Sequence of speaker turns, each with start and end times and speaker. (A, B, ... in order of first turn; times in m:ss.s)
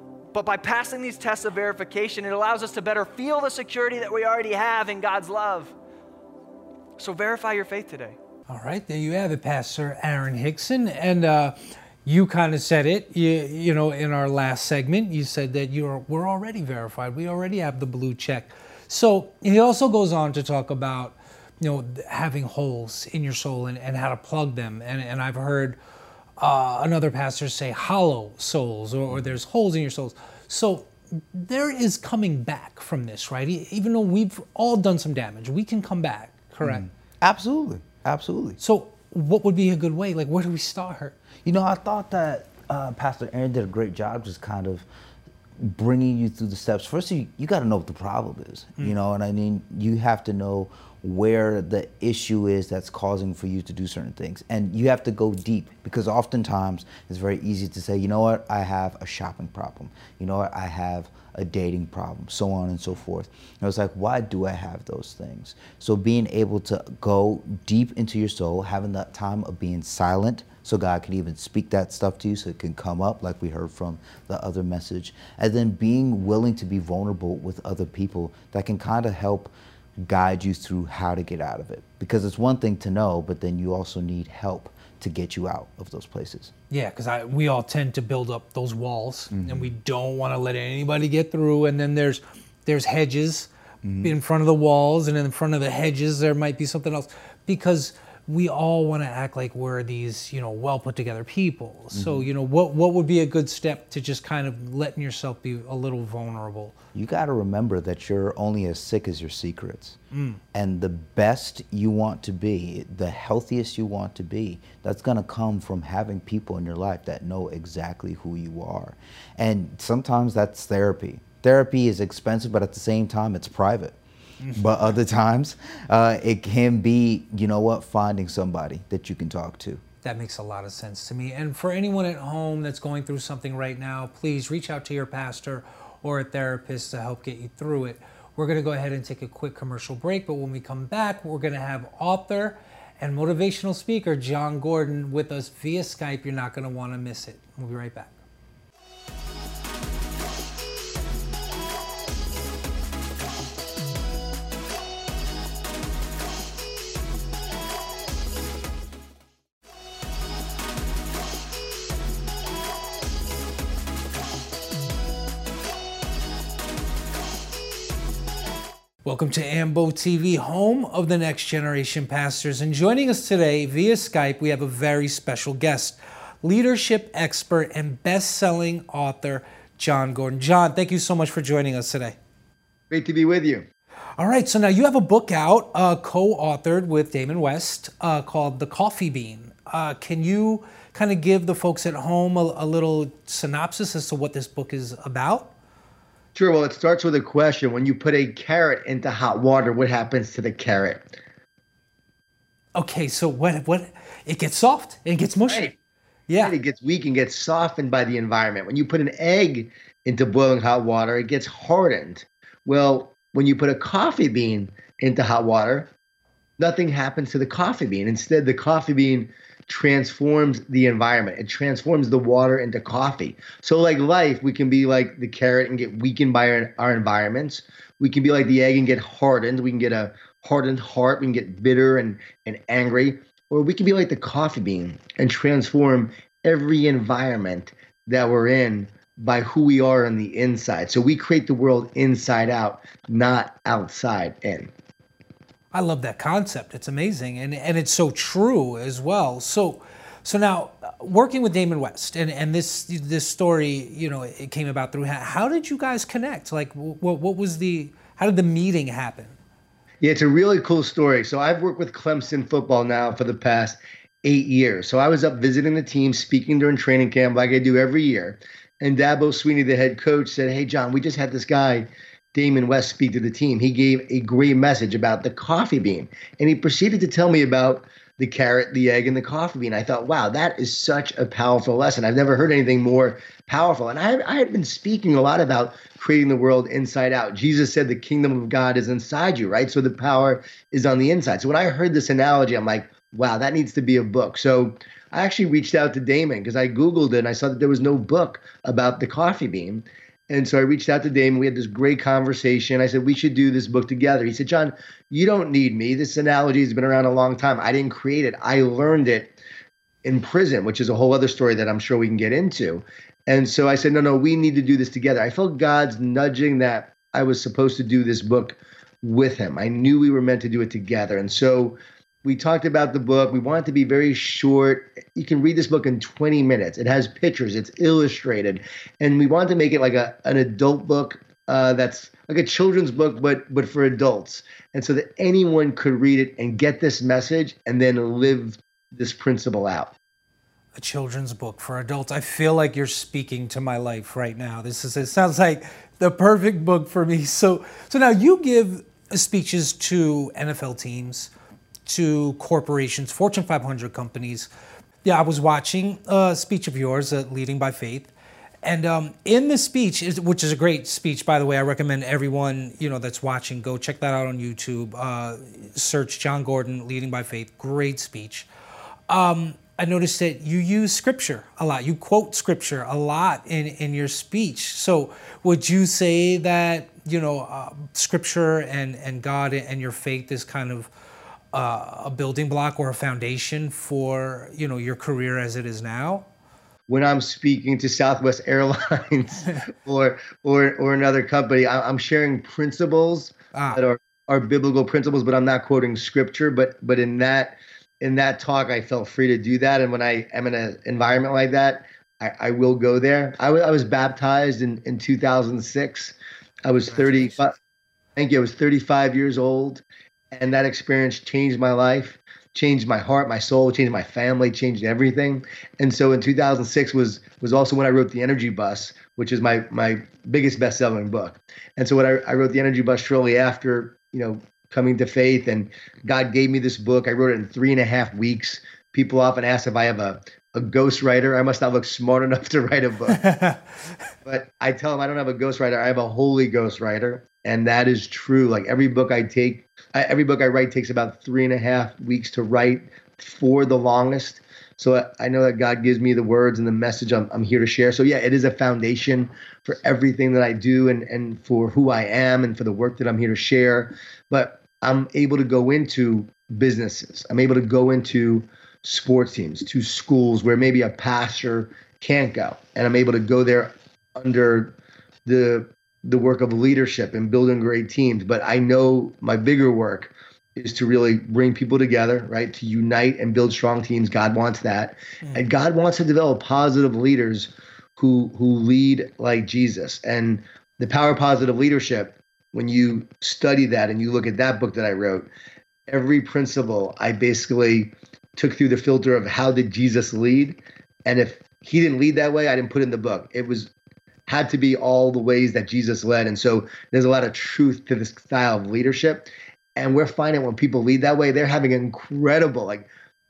0:00.3-0:05.7 A
0:07.0-0:08.2 A
0:08.5-0:25.8 B
0:26.4-0:36.8 B
0:36.6-0:38.6 C
0:38.6-0:41.2 B
0:41.4-0:44.8 C
0:45.6-1:26.5 C
1:26.7-1:33.5 B
1:29.3-1:29.7 C
1:33.8-1:34.1 C
1:34.0-1:46.8 B
1:41.9-1:42.3 C
1:46.9-1:50.0 C
1:50.1-1:50.4 B
1:50.5-2:04.0 C
2:04.4-2:04.7 B
2:04.5-2:09.8 C
2:10.0-2:28.2 B
2:49.0-3:02.2 B
3:02.9-3:03.7 D
3:04.2-3:15.5 B
3:16.3-3:21.2 D
3:22.7-3:25.8 B
3:26.3-3:26.6 B
3:26.4-3:35.9 D
3:36.6-4:04.7 D
4:05.7-4:19.4 B
4:20.0-5:09.4 D
5:10.0-5:39.9 D
5:40.8-5:51.3 B
5:51.8-5:54.5 B
5:55.0-5:58.1 B
5:58.6-6:08.5 B
6:09.1-6:20.9 B
6:21.5-6:26.3 B
6:26.9-6:47.5 D
6:33.5-6:33.8 B
6:48.2-7:13.2 D
7:13.1-7:13.9 B
7:14.2-8:05.3 D
8:05.9-8:13.7 D
8:14.3-8:22.9 D